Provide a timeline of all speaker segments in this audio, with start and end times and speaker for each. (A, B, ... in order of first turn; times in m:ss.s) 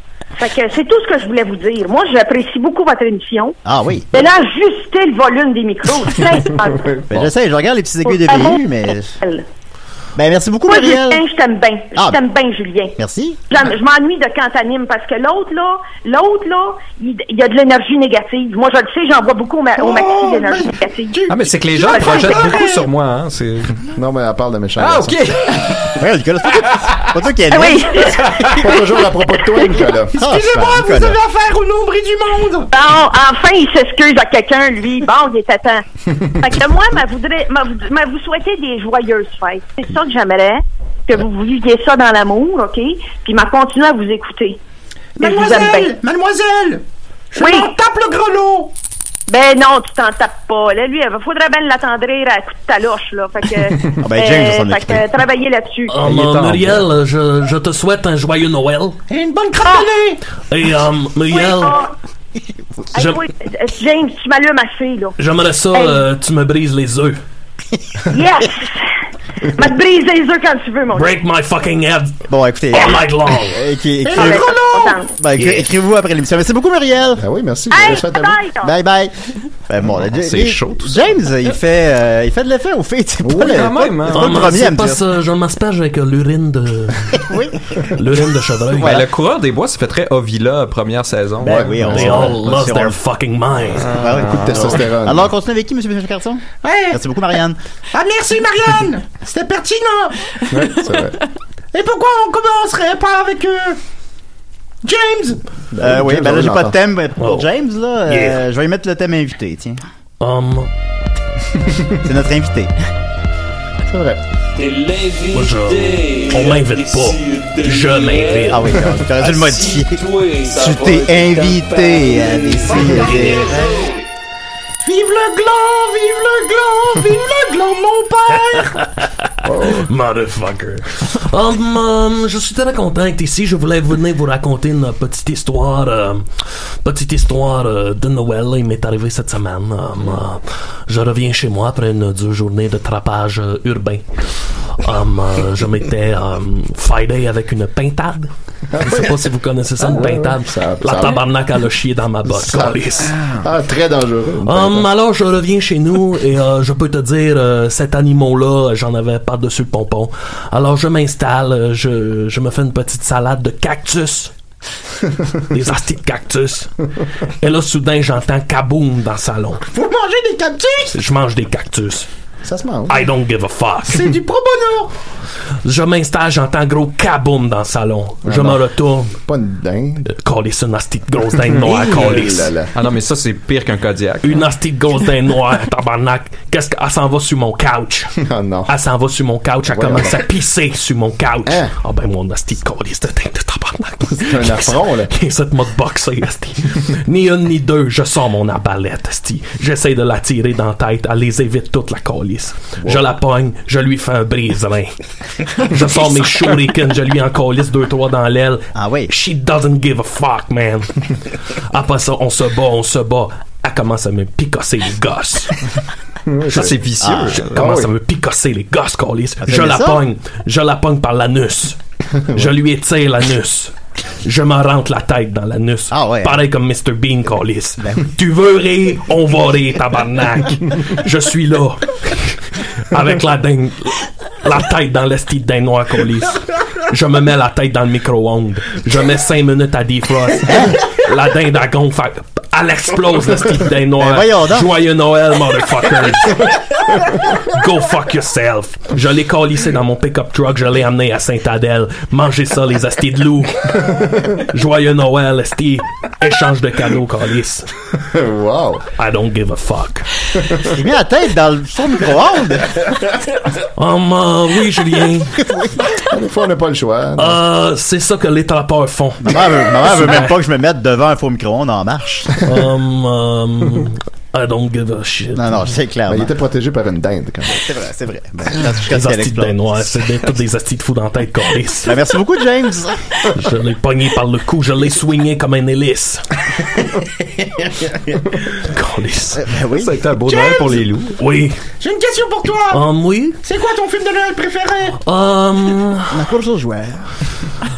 0:00.4-0:03.6 A
0:03.6-0:04.1 B
0:04.1-0:07.0 A
0:06.9-0:07.3 C
0:07.1-0:09.1 B
0:08.0-0:08.6 A
0:10.2-0:11.2 B
0:10.7-0:12.9 A
0:11.9-0:12.2 B
0:13.0-0:13.4 B
0:13.5-0:21.2 A
0:19.8-0:22.9 D
0:21.3-0:23.8 E
0:21.8-0:22.5 A
0:23.9-0:25.3 C
0:24.8-0:25.9 E
0:25.8-0:28.6 B
0:27.5-0:28.4 A
0:28.6-0:30.2 C
0:29.5-0:29.8 A
0:30.1-0:32.7 D
0:30.2-0:31.2 B
0:32.7-0:35.8 A
0:36.4-0:44.6 A
0:45.2-0:48.7 D
0:45.2-0:45.9 A
0:47.4-0:47.7 A
0:49.3-0:55.9 A
0:54.0-0:55.1 B
0:55.9-0:59.0 F
0:56.0-0:56.8 E
0:59.1-1:00.2 D
1:00.5-1:01.8 F
1:01.3-1:01.9 A
1:02.9-1:05.1 A
1:05.2-1:07.2 F
1:05.7-1:06.0 A
1:08.1-1:08.9 A
1:09.6-1:11.2 A
1:10.9-1:12.2 F
1:12.3-1:14.6 B
1:12.8-1:13.6 F
1:14.0-1:15.1 D
1:14.1-1:15.2 A
1:15.1-1:17.2 B
1:17.2-1:18.4 C
1:17.7-1:18.7 A
1:18.6-1:19.1 B
1:19.7-1:25.0 B
1:20.0-1:21.1 E
1:23.2-1:23.6 C
1:23.3-1:24.5 E
1:24.1-1:27.1 F
1:27.1-1:27.6 B
1:27.9-1:29.0 F
1:28.8-1:29.0 B
1:28.8-1:31.8 E
1:31.4-1:32.4 C
1:31.4-1:33.0 B
1:31.9-1:34.0 F
1:33.8-1:34.6 E
1:33.9-1:37.6 B
1:34.1-1:35.3 C
1:36.6-1:37.0 D
1:37.9-1:40.2 D
1:40.5-1:41.2 C
1:41.7-1:43.8 D
1:44.8-1:45.4 D
1:45.7-1:46.8 C
1:45.8-1:49.8 B
1:47.2-1:47.5 F
1:48.1-1:48.4 F
1:50.2-1:50.7 F
1:51.9-1:52.7 B
1:53.9-1:54.2 C
1:54.6-1:58.6 G
1:55.3-1:58.7 F
1:58.5-2:03.8 B
1:59.1-2:04.0 G
2:04.8-2:08.7 D
2:08.5-2:16.3 F
2:09.4-2:09.9 C
2:16.8-2:24.0 F
2:24.8-2:33.1 F
2:28.7-2:29.3 C
2:29.8-2:31.2 C
2:32.2-2:34.9 C
2:34.4-2:44.3 F
2:45.5-2:46.7 F
2:47.4-2:49.6 F
2:49.7-2:50.9 D
2:50.9-2:52.1 F
2:52.4-2:53.1 C
2:52.9-2:54.2 F
2:53.9-2:54.9 D
2:55.6-2:59.1 F
2:58.2-2:58.6 C
2:59.2-3:00.1 C
3:00.1-3:02.5 F
3:01.5-3:02.7 C
3:02.7-3:04.4 E
3:04.2-3:08.1 F
3:08.2-3:08.7 C
3:08.7-3:24.9 F
3:09.7-3:10.2 C
3:11.4-3:11.7 C
3:14.2-3:15.1 C
3:22.8-3:23.1 C
3:25.5-3:31.0 F
3:28.8-3:29.1 B
3:31.7-3:35.6 F
3:36.2-3:36.8 C
3:36.5-3:37.6 E
3:37.0-3:37.4 B
3:37.4-3:41.8 F
3:37.5-3:37.9 C
3:39.4-3:40.0 B
3:42.2-3:42.5 C
3:42.3-4:17.7 F
3:45.9-3:46.4 B
3:47.8-3:48.0 B
4:00.5-4:00.7 B
4:04.0-4:04.7 B
4:18.0-4:18.8 C
4:19.0-4:20.1 F
4:20.7-4:22.9 B
4:23.8-4:25.4 F
4:26.0-4:27.4 C
4:27.2-4:30.4 F
4:29.2-4:32.4 B
4:32.4-4:35.6 F
4:35.3-4:36.3 B
4:36.1-4:37.7 C
4:37.5-4:39.8 B
4:38.7-4:42.0 F
4:41.8-4:43.0 B
4:43.3-4:46.2 F
4:48.4-4:49.4 F
4:49.3-4:50.0 B
4:49.7-4:51.2 E
4:50.2-4:50.8 D
4:51.2-4:51.6 F
4:51.8-4:52.8 D
4:52.7-4:53.4 F
4:53.4-4:55.0 D
4:55.0-4:56.2 F
4:56.1-4:57.1 B